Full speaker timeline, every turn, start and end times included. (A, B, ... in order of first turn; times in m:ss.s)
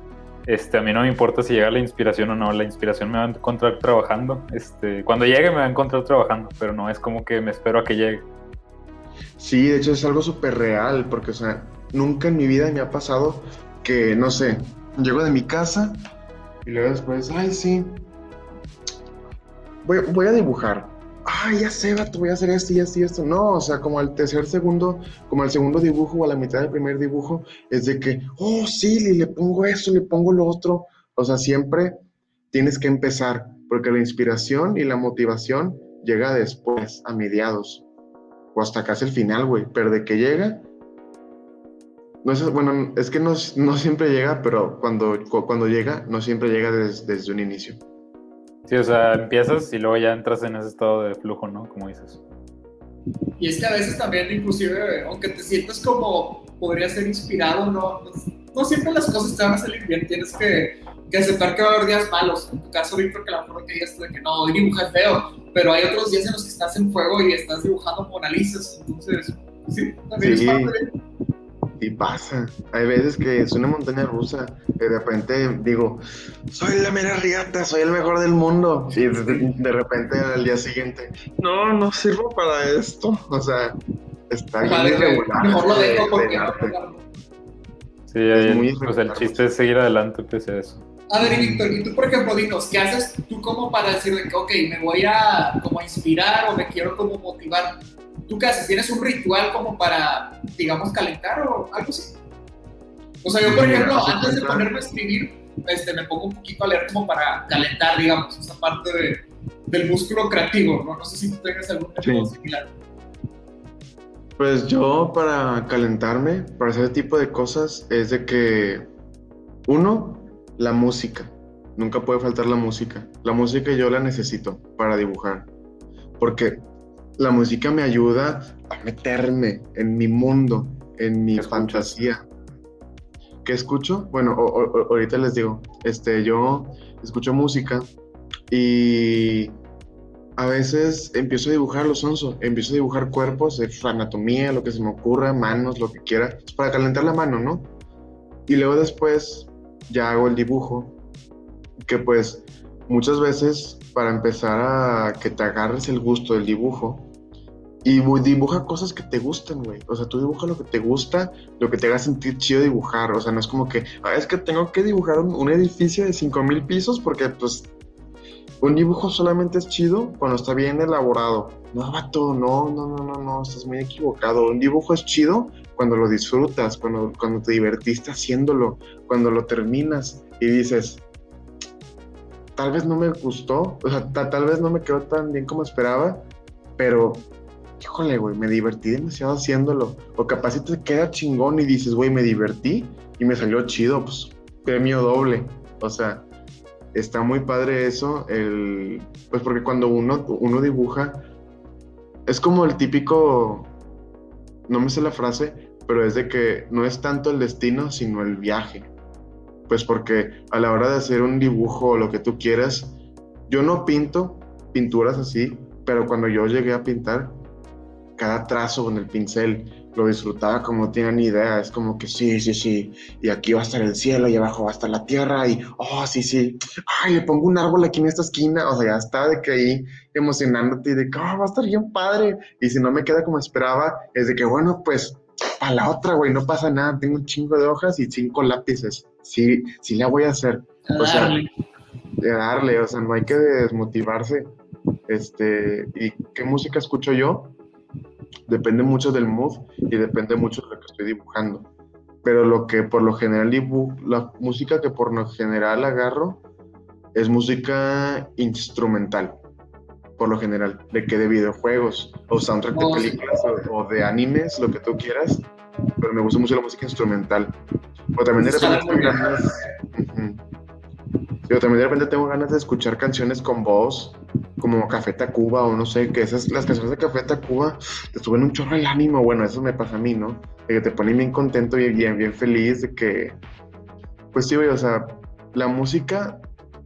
0:00.4-0:08.2 A
0:09.4-0:16.0 B
0:16.6-0:18.1 B
0:19.8-0:32.0 B
0:32.5-0:37.8 B
0:38.5-0:40.6 B
0:42.2-0:47.8 B
0:48.7-0:52.2 A
0:53.4-1:10.9 C
1:10.2-1:10.7 B
1:11.8-1:26.8 B
1:19.0-1:19.5 C
1:24.6-1:27.0 C
1:28.1-1:30.8 A
1:28.3-1:29.5 B
1:31.1-1:42.2 C
1:31.2-1:31.7 B
1:43.2-1:52.7 C
1:43.4-1:44.7 B
1:52.0-1:52.3 B
1:54.4-1:58.9 B
1:59.7-2:05.5 B
2:06.2-2:06.6 B
2:07.2-2:12.2 B
2:11.3-2:12.0 A
2:13.4-2:17.9 B
2:18.5-2:19.6 B
2:20.4-2:27.7 B
2:28.5-2:31.0 B
2:31.8-2:37.1 B
2:37.8-2:47.7 B
2:48.6-3:01.0 B
3:02.6-3:07.3 B
3:07.8-3:16.3 B
3:16.9-3:21.3 B
3:22.3-3:23.7 B
3:24.7-3:28.9 B
3:29.7-3:37.4 B
3:38.2-4:01.4 B
4:00.9-4:01.5 C
4:02.2-4:04.5 B
4:05.1-4:07.6 B
4:08.5-4:11.7 B
4:12.2-4:16.4 B
4:17.1-4:19.4 B
4:20.2-4:25.5 B
4:22.7-4:23.2 C
4:26.0-4:27.6 B
4:28.1-4:30.4 B
4:28.4-4:29.4 C
4:31.4-4:43.4 B
4:44.3-4:46.4 B